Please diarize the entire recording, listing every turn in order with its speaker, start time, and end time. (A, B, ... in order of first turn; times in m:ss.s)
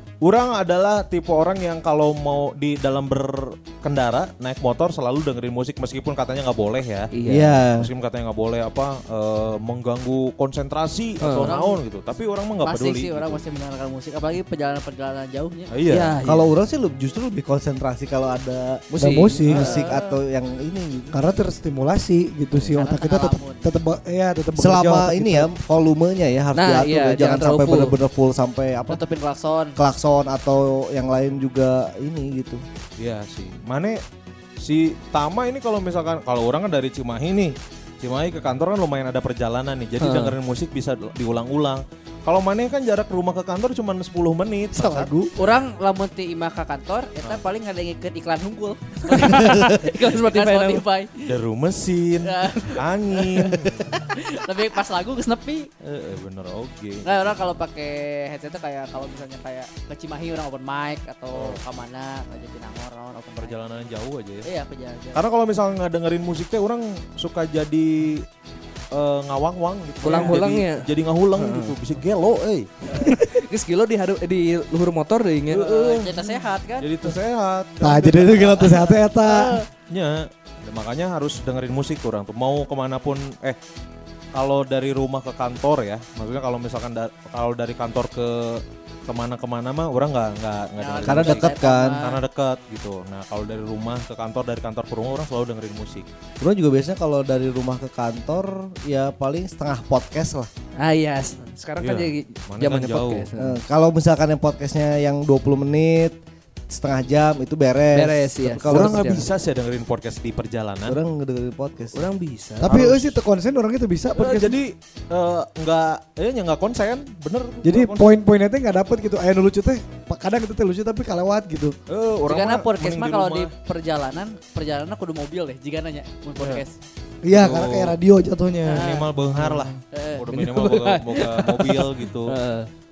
0:00.2-0:07.1 A
0:07.1-0:07.6 B
0:07.3-0:07.9 C
0:07.8-0:13.4 A
0:11.2-0:11.5 B
0:11.4-0:11.8 D
0:12.6-0:15.7 D
0:15.7-0:16.2 A
0:15.9-0:16.5 B
0:16.2-0:21.2 C
0:19.0-0:19.9 E
0:19.5-0:20.2 D
0:21.1-0:25.5 E
0:22.7-0:23.7 D
0:24.6-0:29.0 C
0:26.5-0:27.9 B
0:28.9-0:29.8 D
0:29.8-0:32.6 C
0:33.0-0:34.0 A
0:34.6-0:45.1 A
0:40.0-0:40.4 B
0:44.8-0:45.3 C
0:44.8-0:45.1 E
0:45.4-0:51.2 D
0:49.2-0:50.8 B
0:49.4-0:49.7 C
0:51.2-0:53.9 A
0:52.2-0:55.7 D
0:55.8-0:57.0 A
0:57.0-1:03.6 D
1:01.3-1:01.6 A
1:03.4-1:04.5 A
1:04.4-1:05.2 D
1:05.1-1:08.3 A
1:08.9-1:12.7 A
1:10.0-1:11.8 B
1:10.0-1:10.4 D
1:12.9-1:15.7 B
1:15.5-1:16.3 A
1:15.5-1:16.9 D
1:16.8-1:23.6 A
1:17.8-1:19.6 E
1:19.3-1:19.6 D
1:24.3-1:36.0 A
1:30.8-1:32.2 D
1:31.0-1:32.0 C
1:36.4-1:40.5 C
1:40.8-1:43.6 B
1:41.8-1:43.3 A
1:43.4-1:46.2 C
1:46.7-1:49.2 C
1:47.9-1:49.3 B
1:48.6-1:51.0 A
1:50.9-1:52.1 C
1:51.9-1:52.7 B
1:52.6-1:54.6 E
1:52.6-1:53.2 A
1:54.1-1:58.2 A
1:57.6-2:01.8 E
2:01.9-2:03.5 A
2:02.3-2:06.7 D
2:07.2-2:09.7 E
2:07.3-2:08.0 A
2:08.6-2:09.1 D
2:08.7-2:12.4 A
2:09.9-2:10.2 D
2:10.3-2:12.7 B